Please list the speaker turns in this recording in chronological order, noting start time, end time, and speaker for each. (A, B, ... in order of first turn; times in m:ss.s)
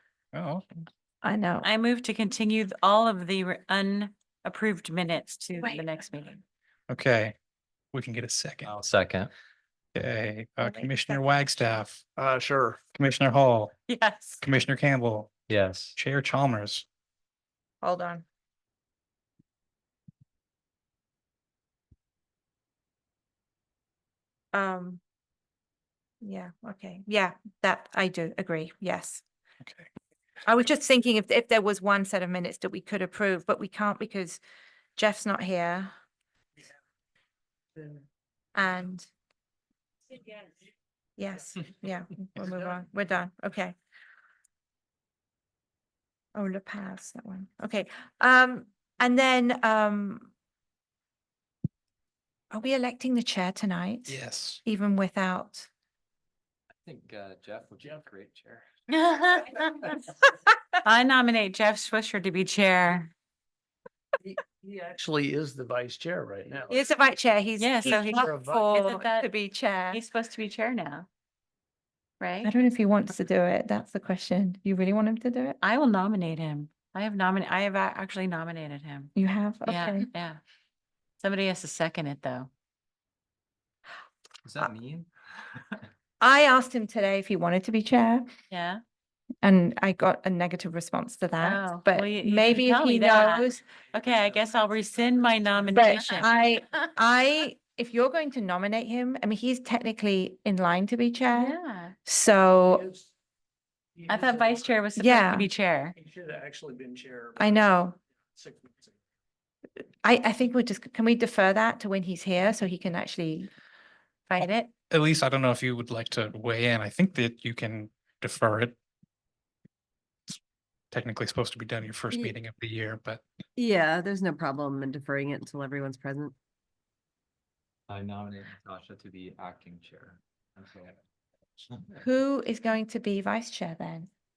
0:00.3-0:00.6 A
0:01.2-0:01.6 B
0:01.6-0:06.4 C
0:06.9-0:07.4 A
0:07.9-0:08.7 A
0:08.6-0:09.3 D
0:09.9-0:12.0 A
0:10.6-0:11.8 B
0:12.2-0:12.8 E
0:12.9-0:13.7 A
0:13.9-0:14.4 C
0:14.4-0:15.4 A
0:15.5-0:16.0 D
0:15.9-0:16.8 A
0:17.8-0:18.2 B
0:24.5-0:25.0 B
0:26.2-0:29.2 B
0:30.4-0:34.4 B
0:35.0-0:35.9 B
0:38.5-0:39.1 B
0:41.2-0:43.7 B
0:46.3-0:50.3 B
0:52.5-0:55.7 B
0:54.1-0:54.6 A
0:56.8-0:58.6 D
0:58.9-1:00.0 C
1:00.8-1:03.1 C
1:04.2-1:06.8 E
1:06.7-1:10.0 B
1:07.6-1:09.3 C
1:07.9-1:08.6 E
1:09.9-1:11.1 C
1:12.2-1:12.5 C
1:12.4-1:15.6 B
1:15.6-1:19.1 C
1:19.2-1:20.1 B
1:19.7-1:20.4 C
1:21.2-1:22.5 C
1:24.4-1:25.1 D
1:26.2-1:28.3 B
1:28.5-1:28.8 C
1:29.4-1:33.6 B
1:31.4-1:36.3 C
1:35.7-1:42.8 B
1:41.3-1:41.9 C
1:42.6-1:43.1 E
1:43.9-1:44.6 E
1:44.1-1:45.9 C
1:45.0-1:45.5 B
1:46.0-1:47.7 E
1:47.4-1:48.0 B
1:48.4-1:49.0 E
1:50.0-1:53.5 B
1:54.3-1:54.7 C
1:54.9-1:58.8 A
2:00.9-2:03.2 A
2:03.6-2:06.3 F
2:07.9-2:11.0 D
2:11.6-2:12.0 D
2:12.0-2:14.1 B